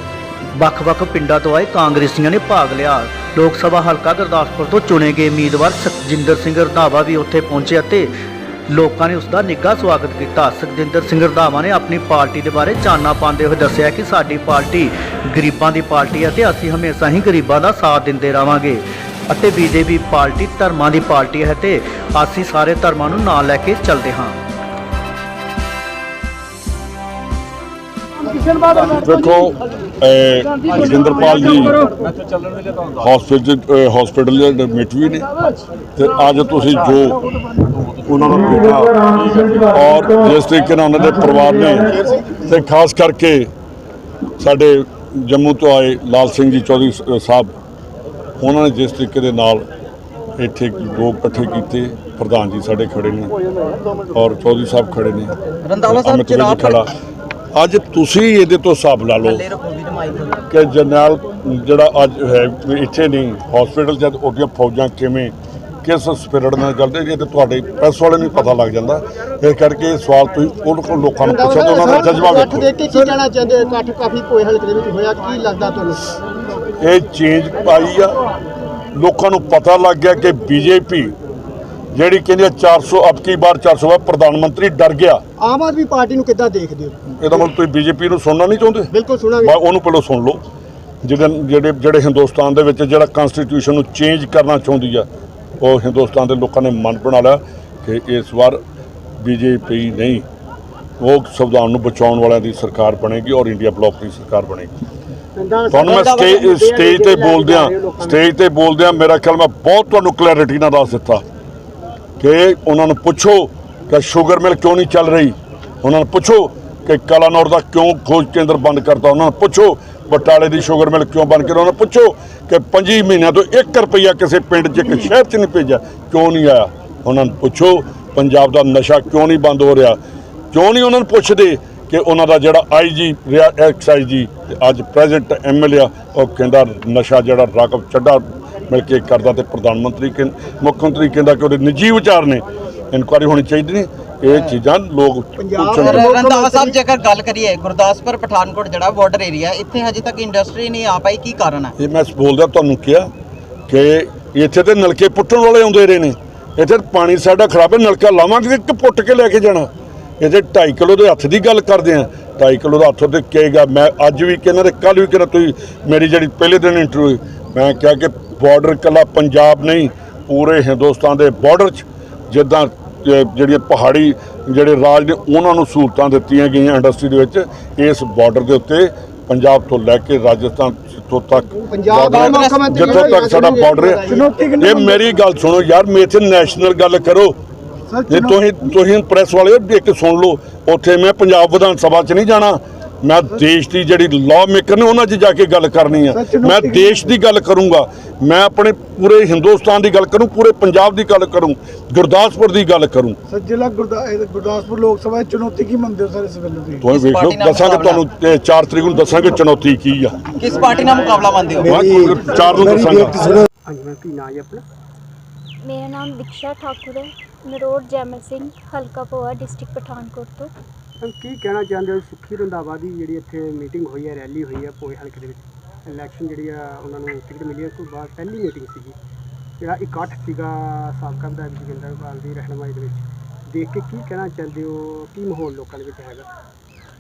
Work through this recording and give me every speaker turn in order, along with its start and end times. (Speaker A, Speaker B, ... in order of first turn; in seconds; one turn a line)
Speaker A: 0.5-8.1
Speaker A: 8.7-24.4
Speaker B: 28.8-31.9
Speaker B: 33.0-35.3
Speaker B: 36.0-37.2
Speaker B: 38.0-43.5
Speaker B: 44.4-47.5
Speaker B: 48.4-49.6
Speaker B: 50.4-53.3
Speaker B: 54.1-55.3
Speaker C: 55.6-56.8
Speaker B: 55.9-56.9
Speaker B: 57.5-59.5
Speaker C: 59.2-60.4
Speaker B: 60.5-72.7
Speaker D: 71.2-76.1
Speaker E: 71.9-72.2
Speaker B: 76.8-78.2
Speaker B: 78.9-81.1
Speaker B: 81.9-85.2
Speaker D: 85.4-87.0
Speaker B: 87.2-90.4
Speaker D: 88.9-89.6
Speaker B: 91.0-95.1
Speaker B: 95.6-98.6
Speaker B: 99.2-100.2
Speaker B: 101.0-104.7
Speaker D: 105.3-108.3
Speaker B: 105.7-111.2
Speaker B: 112.2-130.0
Speaker B: 130.5-146.1
Speaker D: 145.4-146.8
Speaker C: 145.9-151.7
Speaker B: 151.8-153.1
Speaker B: 153.7-184.1
Speaker D: 181.6-184.3
Speaker C: 182.0-182.6
Speaker E: 182.8-183.2
Speaker E: 184.0-185.2
Speaker B: 184.6-187.3
Speaker E: 187.9-188.4
Speaker B: 188.1-203.2
Speaker E: 196.1-197.1
Speaker E: 203.3-206.8
Speaker B: 206.8-210.2
Speaker C: 206.9-208.0
Speaker C: 210.4-211.7
Speaker B: 211.6-213.4
Speaker E: 211.7-212.3
Speaker D: 213.7-214.6
Speaker F: 215.6-220.5
Speaker D: 221.0-228.9
Speaker D: 229.6-236.3